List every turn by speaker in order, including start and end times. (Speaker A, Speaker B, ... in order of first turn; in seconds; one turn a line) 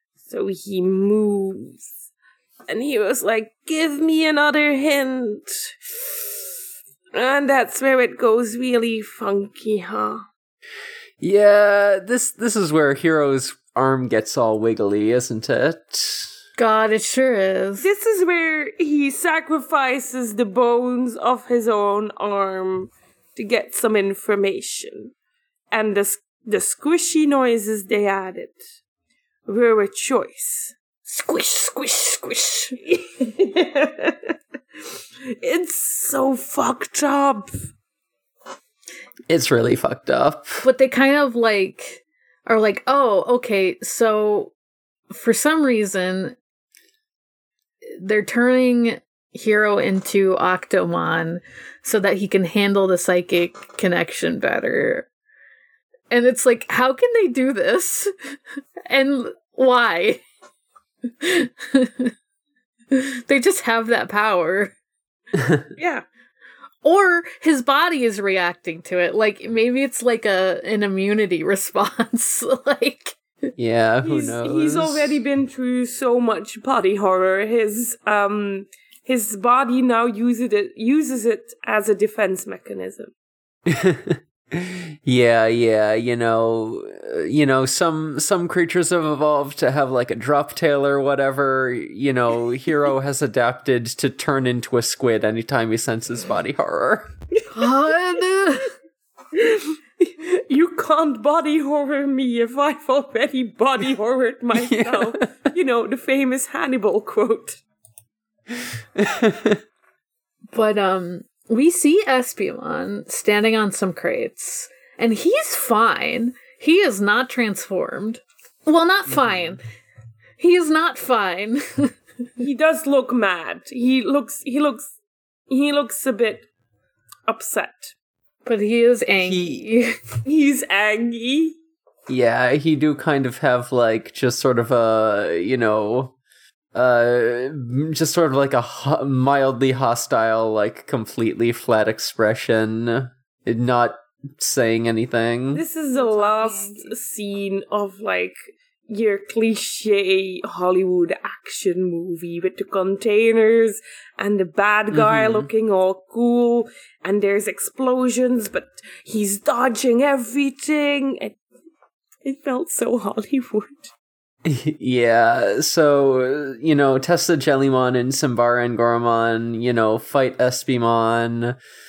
Speaker A: 0.2-1.9
Speaker A: 2.7-5.7
Speaker A: 7.1-10.2
Speaker B: 11.2-16.3
Speaker C: 16.6-17.9
Speaker A: 17.8-25.1
Speaker A: 25.7-28.6
Speaker A: 29.5-30.7
Speaker C: 31.1-32.8
Speaker A: 32.8-34.3
Speaker A: 35.3-37.5
Speaker B: 39.3-40.6
Speaker C: 40.6-44.5
Speaker C: 45.1-46.4
Speaker C: 47.9-55.1
Speaker C: 56.1-58.3
Speaker C: 58.9-60.2
Speaker C: 61.2-62.1
Speaker C: 62.9-64.7
Speaker B: 65.3-65.7
Speaker A: 65.8-66.0
Speaker C: 66.8-73.2
Speaker B: 73.6-75.2
Speaker A: 74.0-83.1
Speaker B: 83.7-97.1
Speaker C: 97.5-98.7
Speaker A: 99.3-107.6
Speaker B: 104.5-105.2
Speaker B: 108.5-109.6
Speaker C: 110.5-119.6
Speaker B: 119.1-119.5
Speaker C: 120.4-121.9
Speaker A: 122.4-124.9
Speaker A: 125.5-126.5
Speaker A: 127.3-127.9
Speaker C: 128.4-129.9
Speaker B: 129.2-129.7
Speaker A: 130.2-131.5
Speaker B: 132.1-136.1
Speaker B: 136.7-145.6
Speaker A: 145.5-148.3
Speaker C: 145.9-146.9
Speaker A: 148.9-161.4
Speaker B: 154.9-155.5
Speaker A: 162.2-163.9
Speaker B: 164.4-171.6